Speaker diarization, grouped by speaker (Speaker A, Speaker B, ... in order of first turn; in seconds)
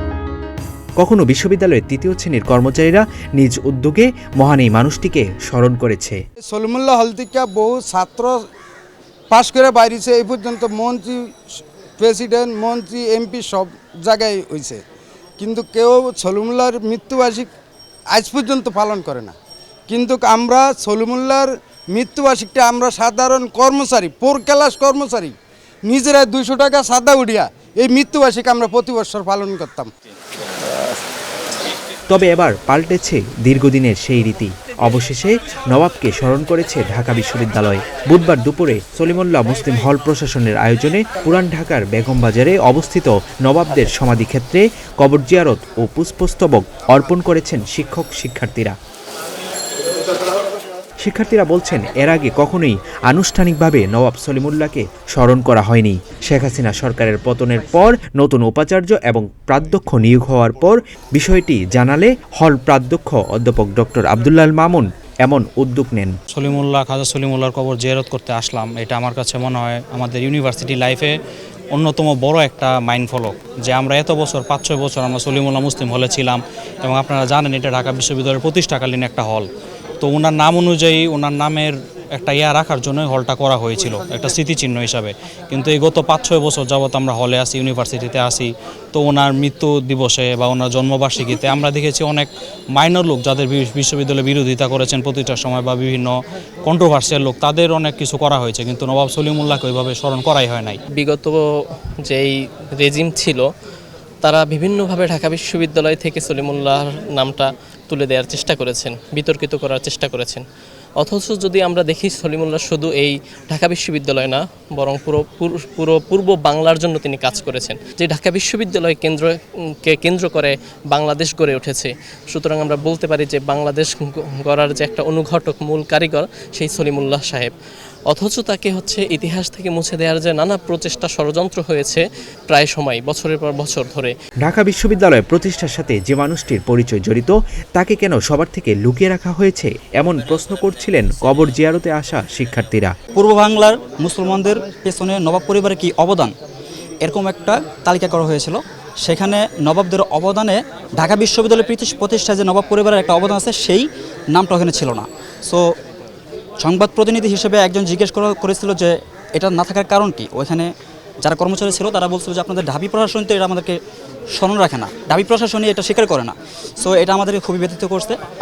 Speaker A: 1.0-6.2, 32.1-48.8, 51.0-66.2, 134.4-142.9
Speaker B: 6.5-8.3, 9.3-11.2, 12.0-14.8, 15.4-17.5, 18.1-19.3, 19.9-25.3, 25.9-29.9
Speaker C: 66.3-71.1, 71.7-79.5, 80.0-96.1, 96.7-100.8
Speaker D: 100.9-101.4, 102.0-103.5, 104.2-110.4, 111.0-119.3, 119.8-127.5, 128.1-134.1
Speaker E: 143.1-146.3, 147.0-155.6, 156.6-160.7, 161.2-163.8, 164.3-168.2